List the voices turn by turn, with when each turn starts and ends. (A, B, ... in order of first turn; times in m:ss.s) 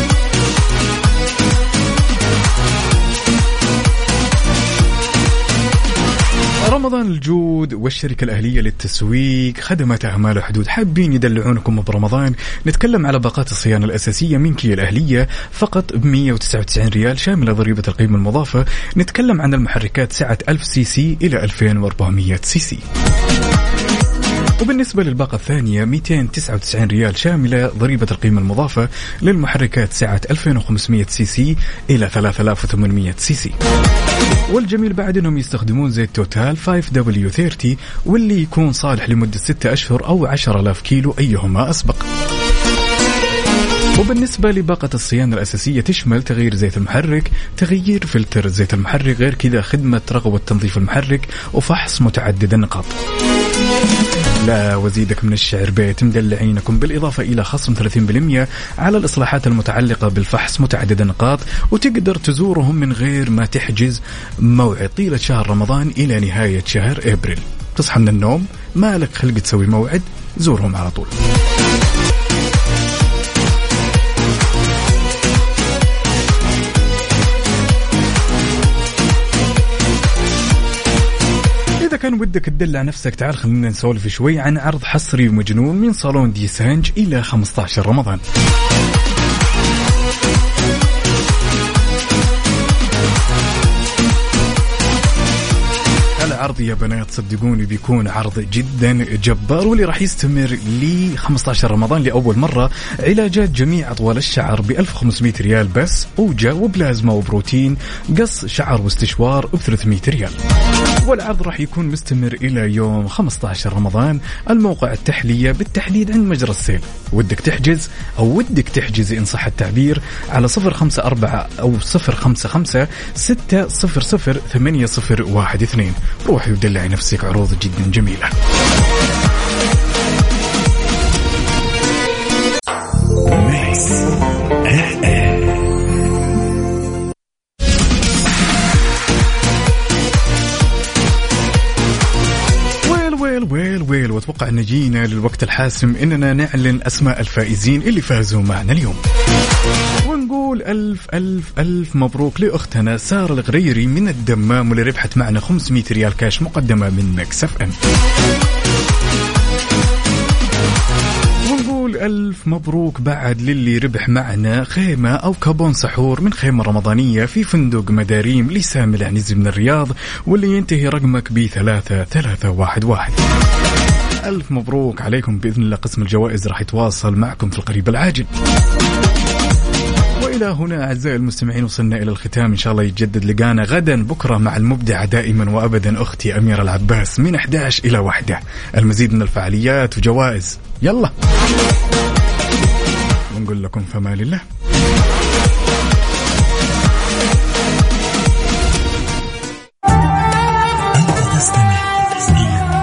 0:06.6-0:22.8 A
0:24.6-0:33.6 A
0:34.5-0:42.1 A
0:44.0-0:53.0 A
0:54.4-1:11.1 A
1:21.8-1:28.2 A
1:36.2-1:50.4 A
1:51.0-2:08.3 A
2:13.3-2:14.0 A
2:14.7-2:15.4 A
2:22.8-2:29.0 A
2:30.0-2:37.7 A
2:41.4-2:53.2 A
2:54.2-2:58.3 A
3:00.2-3:11.1 A
3:13.3-3:14.4 A
3:21.1-3:22.7 A